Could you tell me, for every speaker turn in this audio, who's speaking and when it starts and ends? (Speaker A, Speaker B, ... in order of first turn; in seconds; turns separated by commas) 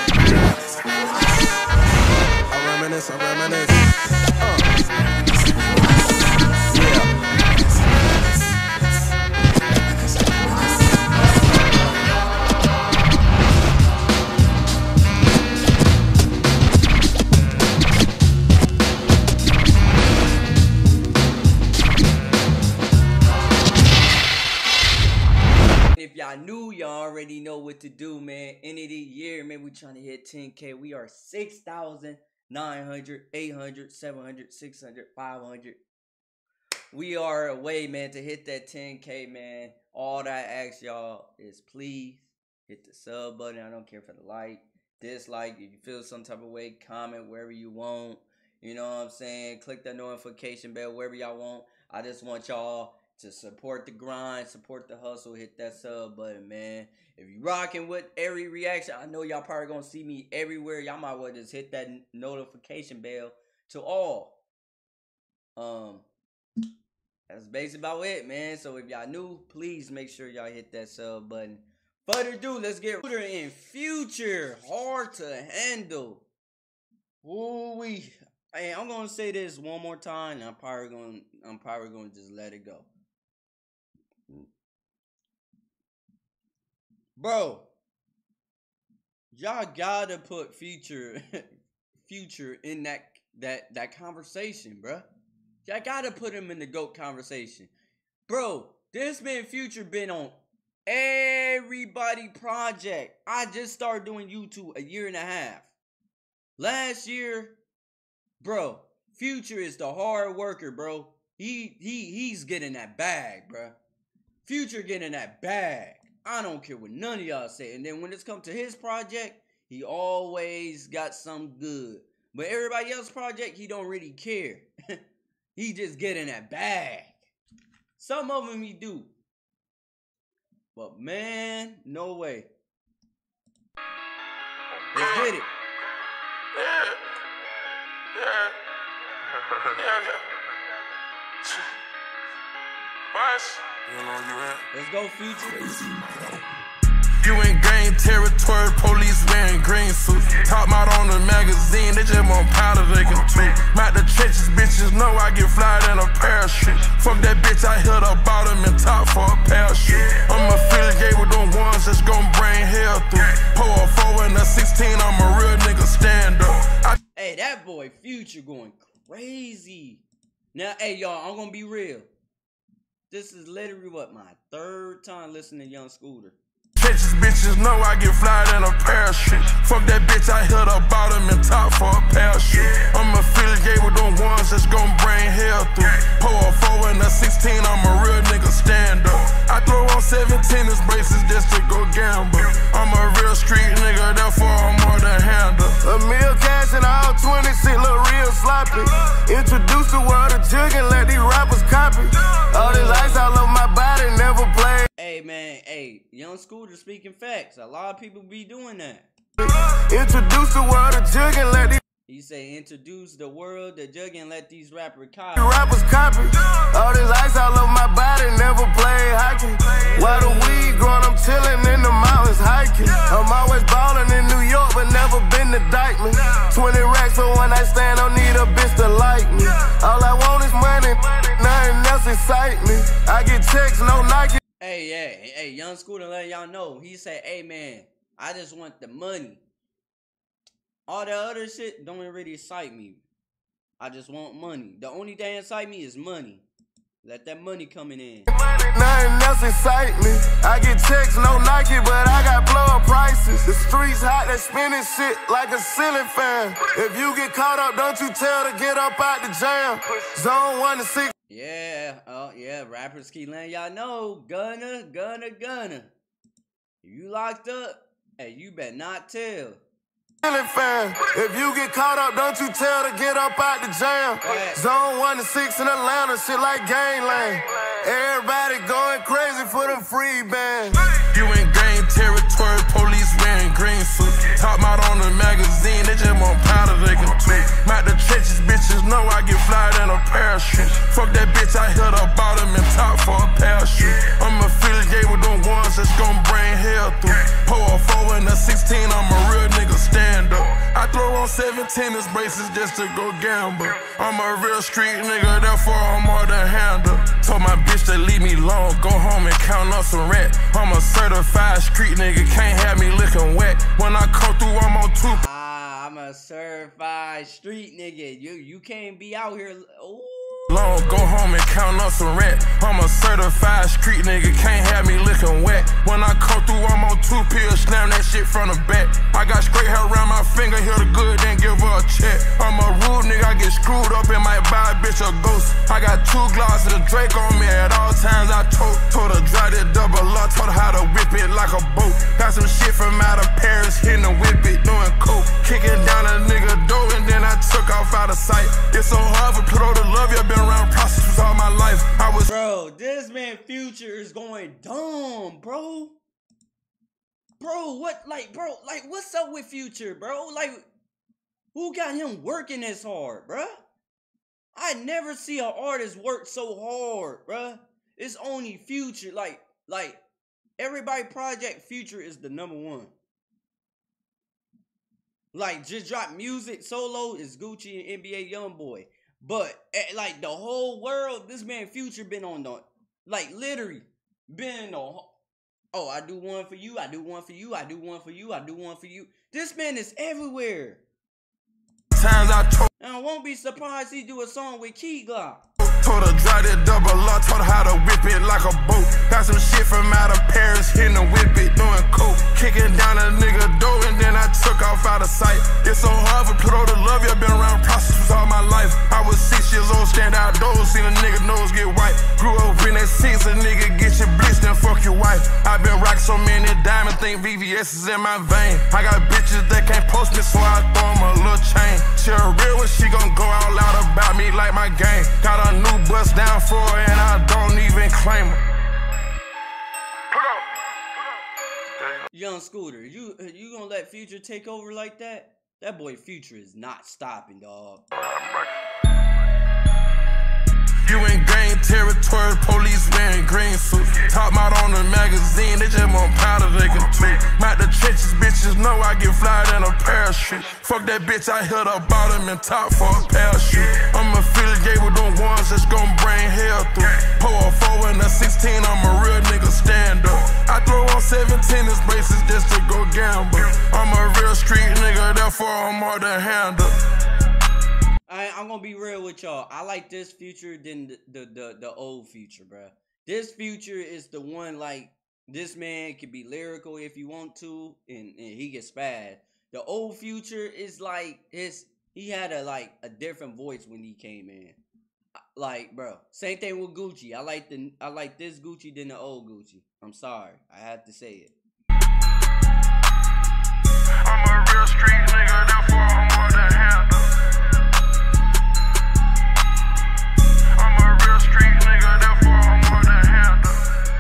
Speaker A: 0.7-1.0, Speaker A: 2.5-3.9, Speaker A: 4.4-4.7, Speaker A: 5.4-6.2, Speaker A: 7.9-8.5, Speaker A: 10.0-10.5, Speaker B: 25.9-35.8, Speaker B: 36.9-64.4, Speaker B: 65.5-66.0, Speaker B: 67.3-76.2, Speaker B: 77.2-82.9, Speaker B: 87.2-87.7, Speaker B: 89.3-91.4, Speaker B: 92.0-95.1, Speaker B: 95.6-97.7, Speaker B: 98.3-105.7, Speaker B: 106.6-107.6, Speaker B: 108.4-113.8, Speaker B: 114.4-125.0, Speaker B: 125.5-127.3, Speaker B: 128.0-129.1, Speaker B: 130.8-132.5, Speaker B: 134.9-135.5, Speaker A: 134.9-135.3, Speaker A: 136.5-137.0, Speaker A: 138.1-138.6, Speaker A: 139.7-140.2, Speaker A: 143.1-144.7, Speaker B: 144.7-145.7, Speaker A: 145.6-146.4, Speaker A: 147.2-166.9, Speaker B: 167.1-172.1, Speaker B: 173.1-176.4, Speaker A: 176.8-195.8, Speaker C: 195.8-204.9, Speaker B: 202.5-203.3, Speaker B: 204.9-209.1, Speaker C: 209.4-211.8, Speaker B: 212.1-215.6, Speaker C: 215.3-234.4, Speaker B: 220.0-220.4, Speaker B: 234.6-239.4, Speaker B: 240.9-243.0, Speaker B: 243.8-246.4, Speaker B: 247.0-248.3, Speaker C: 248.3-261.1, Speaker B: 261.3-265.9, Speaker B: 266.8-269.6, Speaker C: 270.2-280.8, Speaker B: 274.2-274.6, Speaker A: 281.1-315.2, Speaker B: 315.1-320.9, Speaker A: 320.5-352.3, Speaker B: 352.2-356.0, Speaker B: 357.4-360.6, Speaker B: 361.5-363.6, Speaker B: 364.5-370.0, Speaker B: 370.6-372.9, Speaker B: 375.3-385.1, Speaker B: 385.7-390.8, Speaker A: 391.9-392.7, Speaker B: 392.8-395.4, Speaker A: 395.6-428.4, Speaker A: 430.1-430.4, Speaker B: 432.1-437.8, Speaker A: 438.0-438.6, Speaker A: 440.8-466.8, Speaker B: 468.1-484.6, Speaker B: 485.3-491.3, Speaker A: 494.0-497.1, Speaker A: 500.6-503.6